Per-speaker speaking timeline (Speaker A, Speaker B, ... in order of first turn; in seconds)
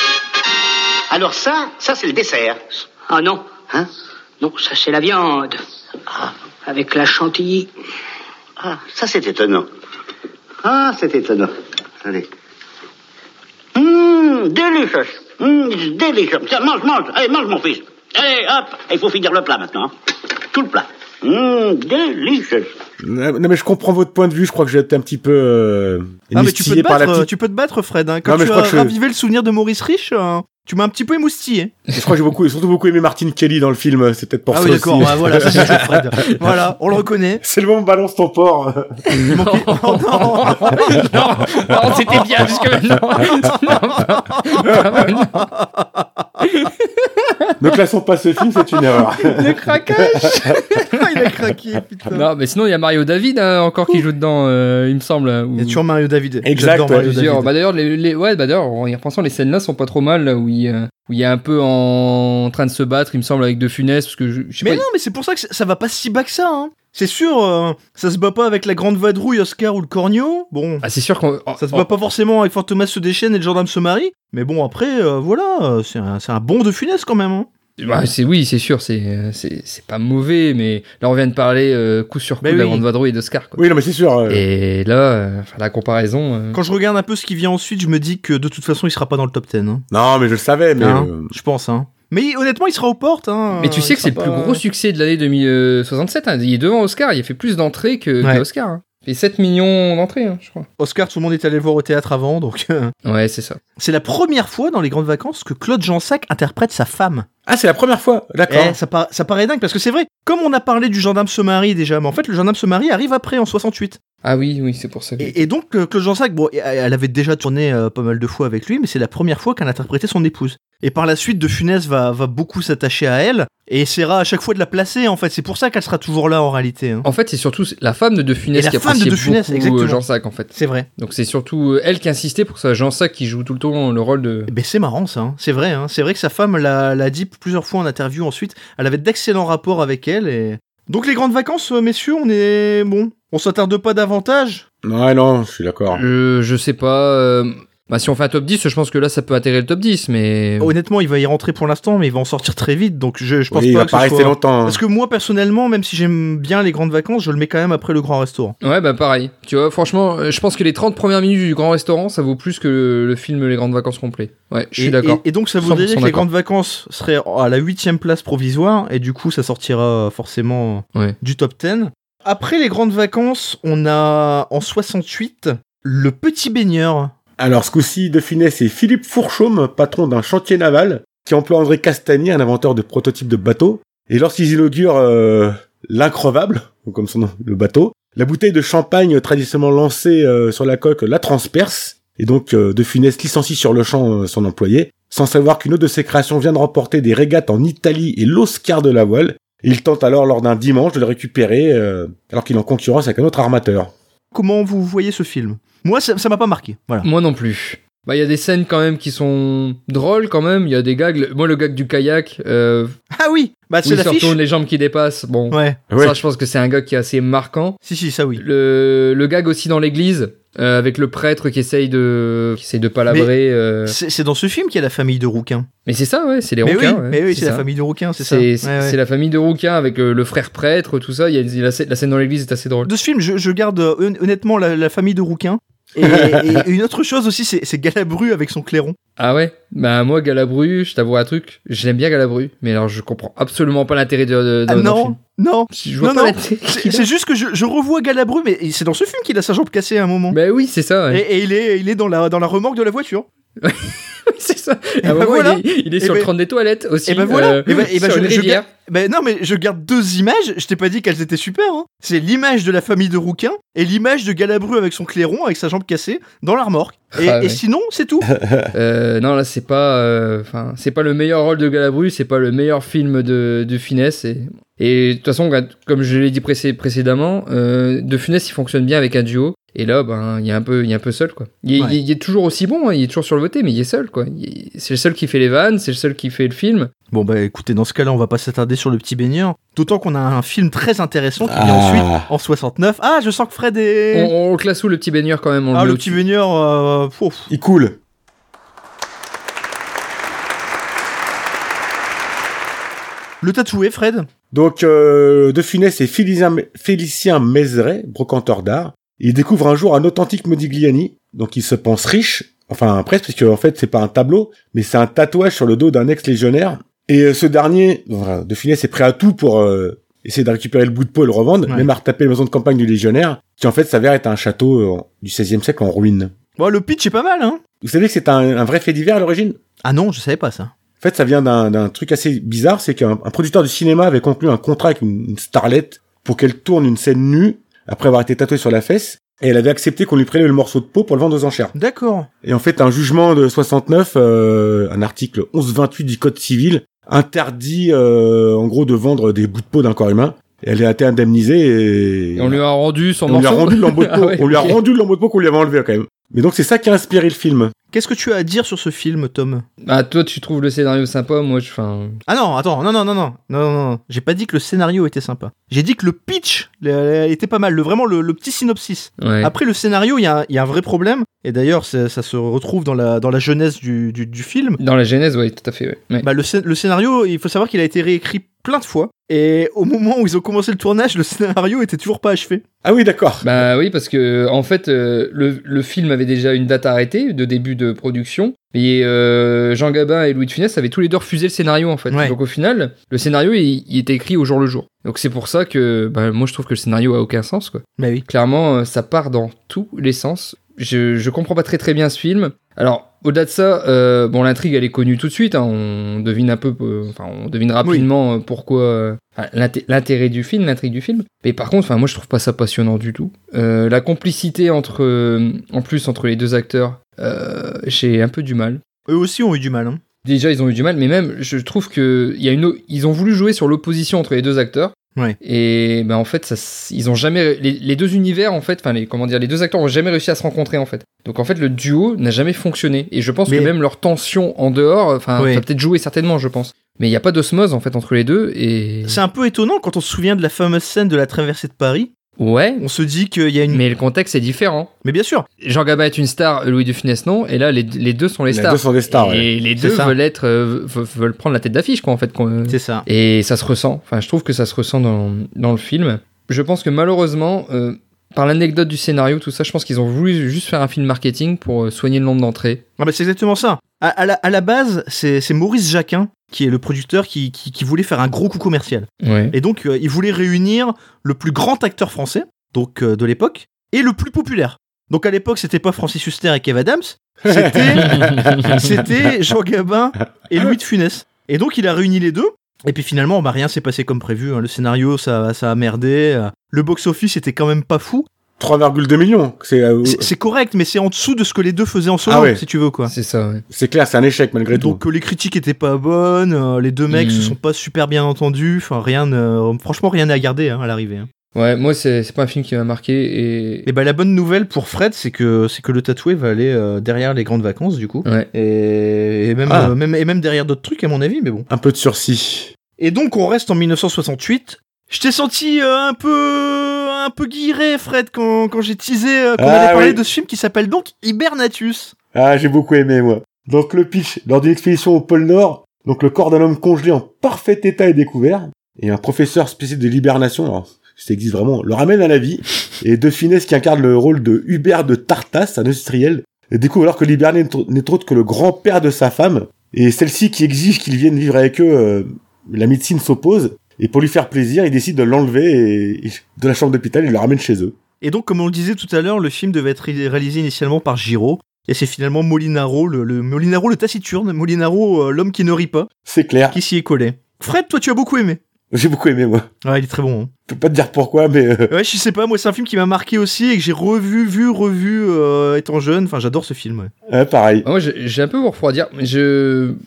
Speaker A: 1.1-2.6, 8.6-9.7, 10.6-11.5, 13.7-19.9, 20.5-22.7
Speaker B: 3.1-3.5, 4.4-5.6, 6.7-7.7
Speaker C: 23.0-27.3, 28.2-28.9, 31.9-36.1, 37.4-39.0, 47.6-50.5, 56.4-57.1, 83.6-84.4, 89.9-91.3, 107.5-108.8, 144.8-146.0, 153.5-154.8, 177.4-203.9, 215.9-216.2, 236.0-236.6, 268.4-268.7, 291.4-292.3, 297.5-298.0, 304.5-326.3, 327.8-329.6, 331.0-341.7, 342.4-352.6, 353.3-357.7, 382.8-383.4, 448.5-449.5, 477.4-478.9, 488.6-490.3, 492.2-492.6, 493.7-495.0, 509.7-509.9, 511.7-512.7, 519.6-520.2, 522.3-548.0, 556.2-556.8, 558.9-559.7, 560.7-561.9, 567.3-567.9
Speaker D: 26.3-31.8, 34.5-37.4, 39.3-41.0, 44.0-46.0, 50.7-52.3, 55.6-57.5, 64.6-70.8, 71.6-77.5, 82.4-82.8, 86.5-89.8, 90.8-94.6, 100.8-102.9, 103.8-107.3, 108.5-114.0, 115.2-127.0, 128.5-130.0, 130.5-130.9, 134.5-144.6, 150.6-158.6, 164.8-177.1, 204.3-207.1, 213.1-214.4, 215.5-215.8, 217.8-218.4, 223.8-225.7, 226.6-229.0, 232.8-239.0, 244.7-250.4, 251.1-253.3, 255.0-256.3, 257.1-268.3, 287.1-294.3, 295.7-297.5, 303.4-304.3, 326.6-327.6, 329.8-330.7, 341.7-342.3, 357.9-359.6, 362.3-374.8, 376.2-382.6, 392.1-392.4, 398.0-398.2, 419.1-420.0, 435.4-435.6, 439.1-442.1, 442.8-443.8, 445.0-445.4, 449.8-450.1, 452.7-453.1, 463.0-488.2, 490.0-493.1, 494.7-501.3, 503.9-511.7, 513.0-522.1, 548.2-556.1, 556.7-558.6, 559.8-560.5, 561.9-567.1
Speaker E: 39.1-45.5, 46.4-47.5, 49.1-51.2, 52.1-55.8, 56.9-64.8, 70.8-71.9, 77.8-83.7, 84.3-86.6, 93.6-100.7, 103.0-103.6, 114.2-115.4, 127.0-134.5, 145.9-150.7, 158.6-166.2, 207.0-212.9, 213.8-217.8, 218.4-223.9, 225.8-227.6, 228.2-232.9, 239.2-245.2, 245.7-247.1, 250.3-251.2, 253.6-258.6, 267.1-267.6, 268.7-286.9, 294.1-296.2, 352.4-354.8, 359.8-362.2, 369.2-369.5, 374.8-376.3, 383.4-418.8, 420.2-439.2, 442.4-442.8, 443.7-444.9, 445.6-462.8, 469.2-469.5, 478.0-478.8, 493.1-493.6, 497.1-497.6, 501.5-503.9, 567.8-570.0